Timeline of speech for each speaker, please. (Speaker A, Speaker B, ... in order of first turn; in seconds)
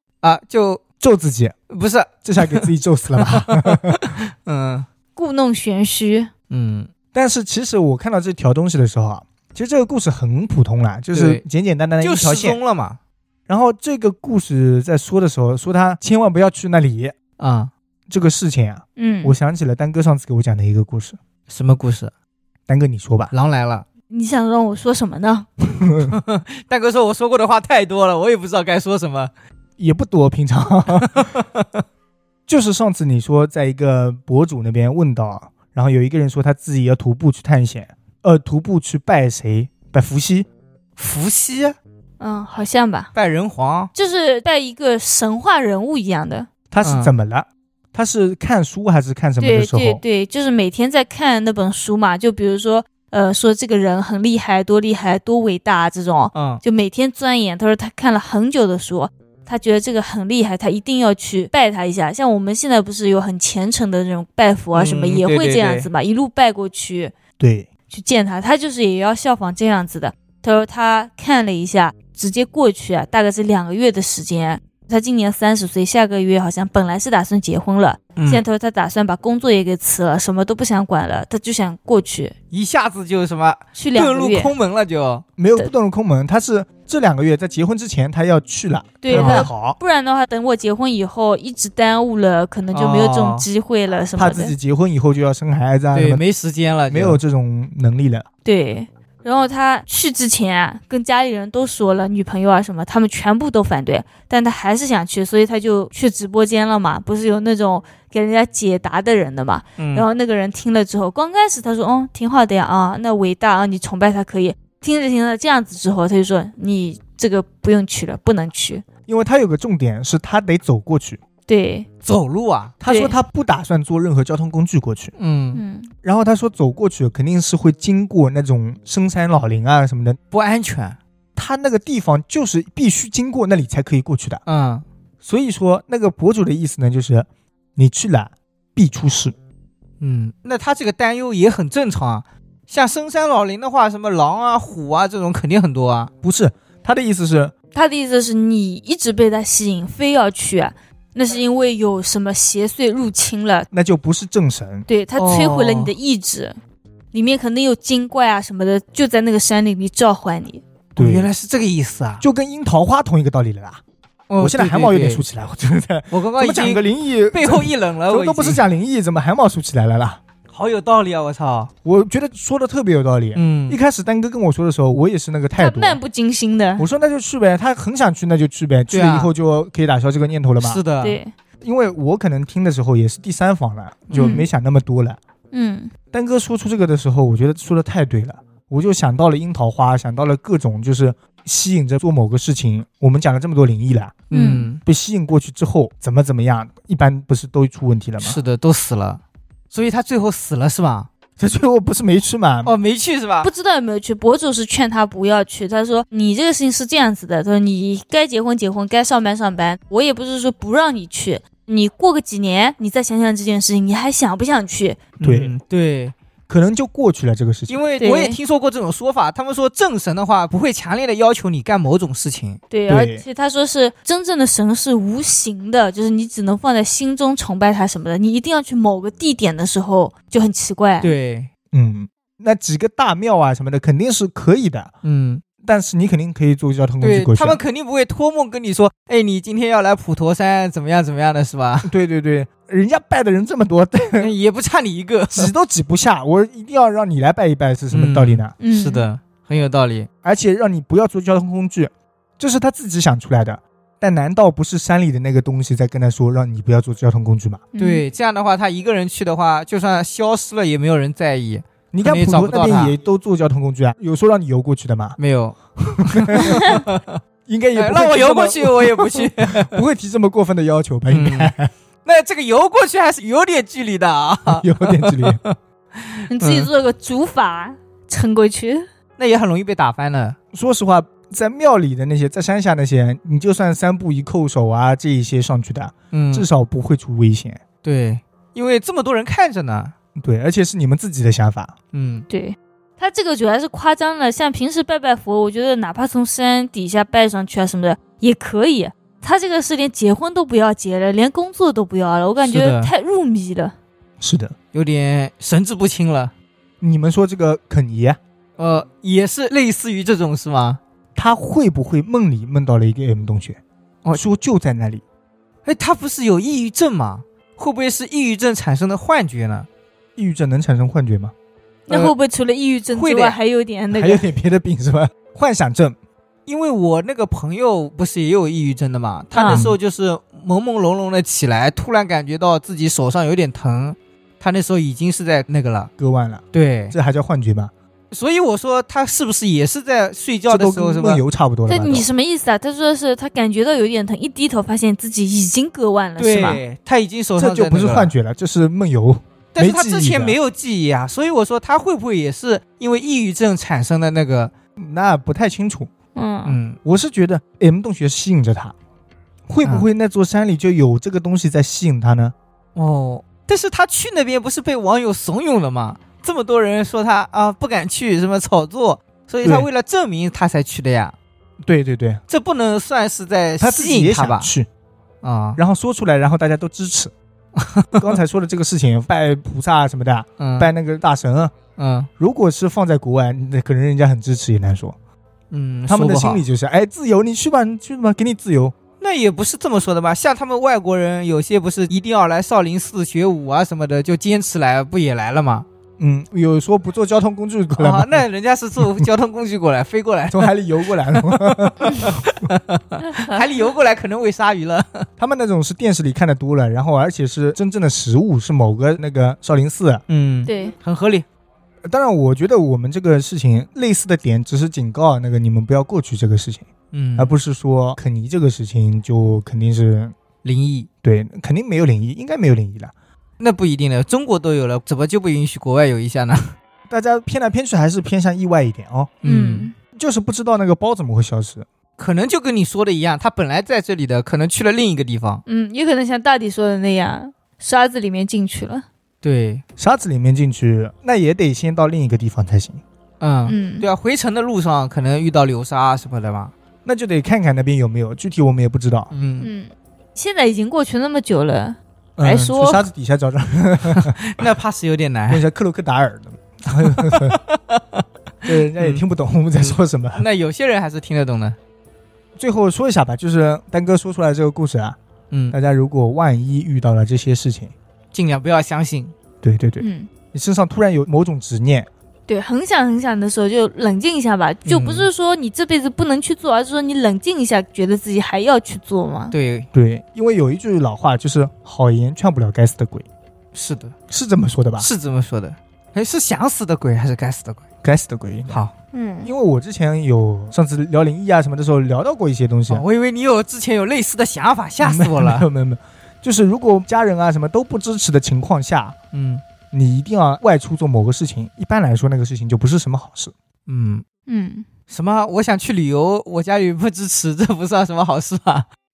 Speaker A: 0.2-0.8, 1.7-4.9, 6.5-6.9, 11.1-11.4, 12.0-13.0, 17.4-17.7, 21.5-22.1, 23.3-23.9, 26.1-29.3, 31.0-31.8, 41.0-41.8, 43.1-43.9, 46.8-47.1, 56.3-56.6, 64.7-65.9, 78.2-78.4, 82.5-85.2, 89.1-89.5, 92.7-93.5, 95.9-97.2, 109.8-110.0, 122.0-122.7, 125.2-125.6, 130.3-131.0, 134.4-134.8, 140.0-146.1, 155.2-155.9, 161.0-162.2, 164.3-165.2, 166.1-168.6, 170.5-171.7, 173.3-173.8, 178.9-179.3, 180.6-181.2, 184.1-184.4, 194.3-194.8, 198.2-201.1, 202.6-203.5, 215.2-216.1, 217.7-222.6, 231.0-231.5, 235.0-235.4, 237.0-241.9, 244.2-245.5, 247.9-250.1, 257.8-262.9, 265.2-267.2, 267.7-269.7, 271.1-271.5, 272.0-276.7, 279.2-280.4, 286.1-286.4, 287.8-289.9, 291.9-292.3, 302.4-302.9, 304.7-306.3, 308.6-310.8, 315.6-319.7, 321.9-322.1, 322.9-323.4, 326.4-335.9, 336.5-336.9, 338.1-341.2, 346.2-348.1, 349.5-354.5, 356.4-356.8, 362.7-371.1, 372.3-374.5, 375.2-375.6, 377.6-378.0, 380.4-380.7, 381.8-382.1, 385.5-386.4, 389.0-395.7, 397.8-405.1, 410.1-411.3, 416.9-417.3, 420.4-420.9, 423.4-426.6, 429.2-429.7, 432.0-435.4, 439.2-439.6, 443.2-446.5, 449.1-449.5, 453.9-455.4, 456.8-459.0, 459.6-461.6, 465.3-465.6, 468.1-469.1, 474.6-475.1, 479.3-479.7, 483.5-483.9, 484.8-487.6, 492.7-495.4, 499.1-499.4, 503.7-504.1, 504.9-508.7
Speaker B: 1.0-1.6, 2.2-4.0, 7.1-12.6, 13.5-17.1, 18.1-21.2, 22.7-23.3, 25.8-26.1, 29.8-31.3, 32.5-40.5, 46.7-50.0, 67.4-67.7, 85.4-89.8, 94.2-96.2, 96.9-98.2, 119.1-121.2, 122.8-125.1, 126.0-130.2, 131.4-134.4, 135.2-139.3, 146.2-147.5, 153.7-154.9, 160.9-161.3, 162.2-163.8, 164.4-170.2, 171.8-176.0, 176.8-180.8, 181.6-185.2, 186.1-194.2, 194.8-198.4, 201.4-202.7, 215.2-215.6, 216.5-217.8, 222.9-223.2, 231.7-234.9, 235.6-237.6, 241.8-244.3, 245.3-248.5, 250.2-257.6, 261.9-265.2, 266.0-266.7, 267.5-271.7, 274.5-275.4, 280.5-287.6, 290.2-291.8, 304.2-304.6, 306.8-308.2, 311.1-313.6, 314.1-315.0, 320.1-321.3, 323.9-326.0, 329.4-329.8, 336.0-337.7, 340.5-342.1, 347.4-350.4, 354.8-355.9, 356.8-358.7, 359.5-362.3, 369.4-369.7, 371.6-372.2, 373.6-374.7, 375.6-377.1, 378.0-381.5, 382.2-384.9, 385.9-388.8, 396.0-398.3, 398.8-399.1, 400.3-402.4, 405.2-410.0, 411.9-416.6, 417.2-420.1, 421.0-422.9, 426.9-429.1, 429.9-431.7, 439.8-442.8, 446.8-449.1, 452.2-454.2, 455.3-457.4, 458.4-460.2, 462.4-465.0, 465.5-467.7, 469.4-471.9, 479.7-483.1, 484.1-484.9, 487.8-488.6, 489.2-492.8, 494.8-498.9, 499.7-503.3
Speaker C: 5.2-6.3, 19.0-19.3, 24.1-25.5, 42.2-43.1, 43.9-46.5, 49.4-67.1, 67.9-82.3, 83.7-84.5, 89.0-94.5, 98.4-118.8, 121.5-121.9, 122.9-123.2, 125.5-125.9, 147.7-153.7, 154.9-156.6, 157.1-160.6, 175.6-176.9, 181.0-181.3, 184.1-184.5, 185.5-185.9, 194.3-194.7, 203.4-215.0, 218.0-218.4, 222.7-231.1, 248.6-249.1, 257.7-258.1, 276.3-278.9, 292.3-303.7, 321.9-324.2, 329.3-329.7, 341.7-346.6, 356.1-356.6, 403.1-403.4, 410.4-410.7, 429.2-429.7, 435.4-438.8, 443.5-443.9, 449.4-452.8, 469.8-470.1, 472.3-479.3, 488.9-489.3, 504.3-504.6